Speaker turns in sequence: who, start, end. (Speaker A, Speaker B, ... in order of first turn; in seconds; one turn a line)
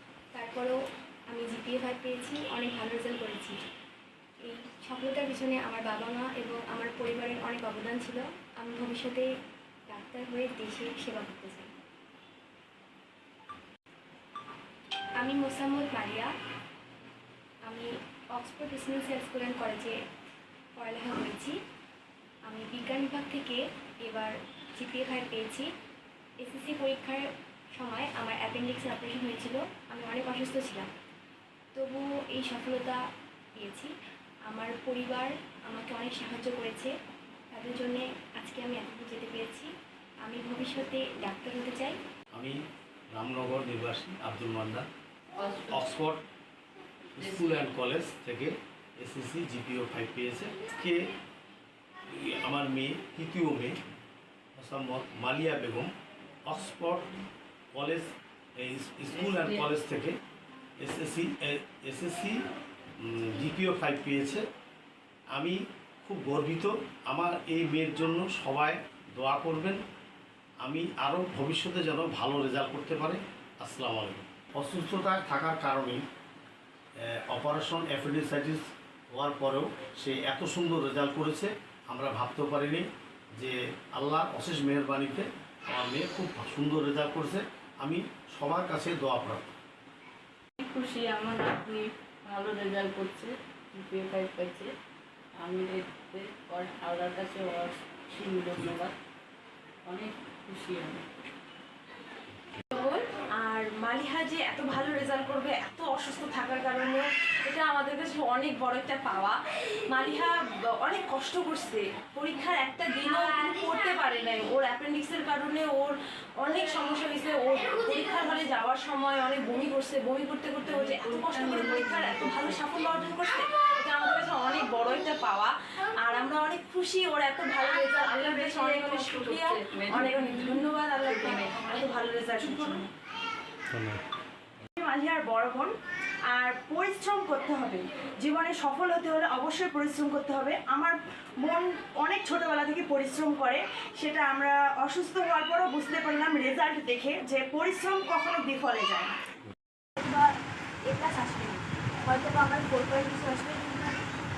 Speaker A: 0.3-0.8
Speaker A: 1.3-3.6
Speaker A: 4.5-9.3
Speaker A: 9.9-11.7
Speaker A: 15.2-16.3
Speaker A: 17.7-19.9
Speaker A: 20.8-21.6
Speaker A: 22.5-25.7
Speaker A: 26.4-30.9
Speaker A: 31.7-33.0
Speaker A: 33.6-33.9
Speaker A: 34.5-36.9
Speaker A: 37.5-39.7
Speaker A: 40.2-42.0
Speaker B: 43.1-44.9
Speaker C: 45.4-45.9
Speaker B: 45.7-46.2
Speaker B: 47.2-51.1
Speaker C: 47.2-47.6
Speaker B: 52.1-53.8
Speaker B: 54.6-55.9
Speaker B: 56.5-57.1
Speaker B: 57.7-60.2
Speaker C: 59.2-59.7
Speaker B: 60.8-62.4
Speaker B: 63.0-64.5
Speaker B: 65.3-69.8
Speaker B: 70.6-76.0
Speaker B: 77.0-78.6
Speaker B: 79.1-82.9
Speaker B: 83.4-89.5
Speaker C: 90.6-94.7
Speaker C: 95.4-99.0
Speaker C: 99.9-101.0
Speaker D: 102.7-109.4
Speaker D: 109.9-132.8
Speaker C: 120.7-122.7
Speaker C: 128.9-131.6
Speaker E: 132.3-132.8
Speaker B: 133.7-134.0
Speaker E: 134.8-135.7
Speaker E: 136.3-149.2
Speaker A: 150.0-150.3
Speaker A: 150.9-153.9